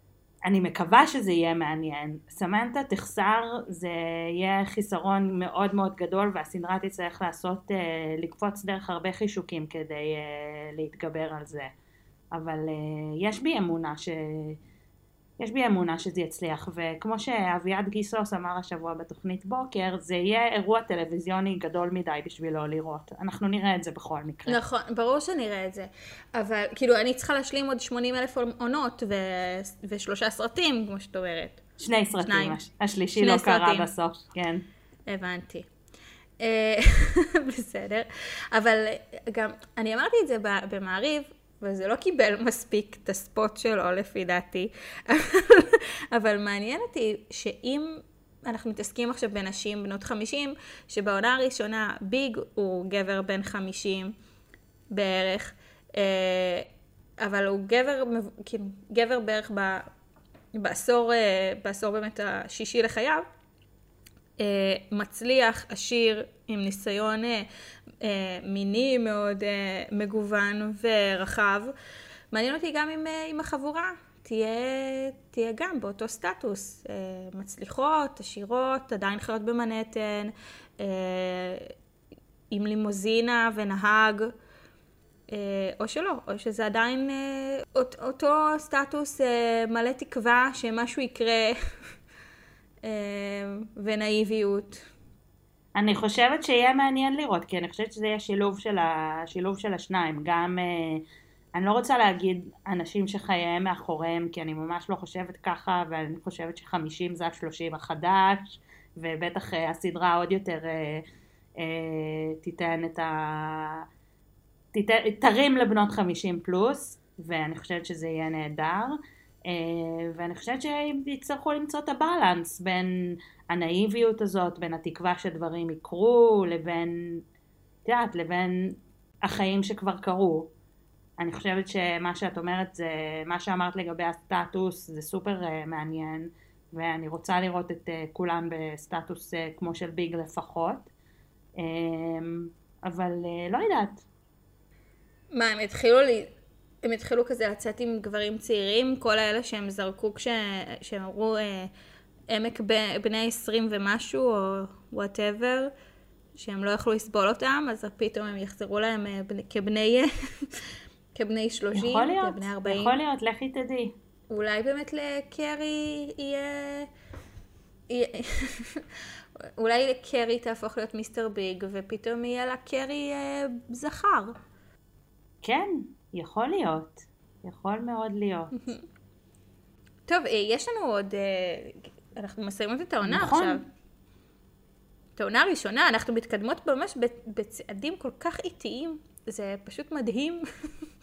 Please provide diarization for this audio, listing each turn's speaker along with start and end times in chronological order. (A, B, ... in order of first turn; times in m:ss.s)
0:00.4-0:11.7 A
0:12.3-0:14.6 A
0:15.4-0:24.6 A
0:24.5-0:31.6 B
0:31.8-0:34.6 A
0:32.2-0:32.6 B
0:33.2-0:33.9 B
0:35.1-0:35.7 B
0:36.4-0:54.1 B
0:54.9-0:56.7 B
0:57.2-0:59.9 B
1:00.5-1:03.2 B
1:04.4-1:07.5 B
1:08.0-1:11.7 B
1:12.3-1:21.7 B
1:22.5-1:24.3 B
1:25.3-1:31.6 B
1:32.8-1:34.8 B
1:35.7-1:51.0 A
1:51.6-1:53.8 A
1:54.7-2:07.2 A
2:07.8-2:10.5 A
2:11.2-2:20.9 A
2:21.6-2:24.0 A
2:25.3-2:26.3 B
2:26.8-2:31.7 B
2:32.3-2:35.7 B
2:36.4-2:43.0 B
2:41.7-2:43.9 A
2:44.3-2:46.9 B
2:47.9-2:48.8 B
2:49.6-2:54.3 B
2:55.4-2:58.6 A
3:00.1-3:03.6 B
3:03.0-3:03.6 A
3:05.2-3:10.8 B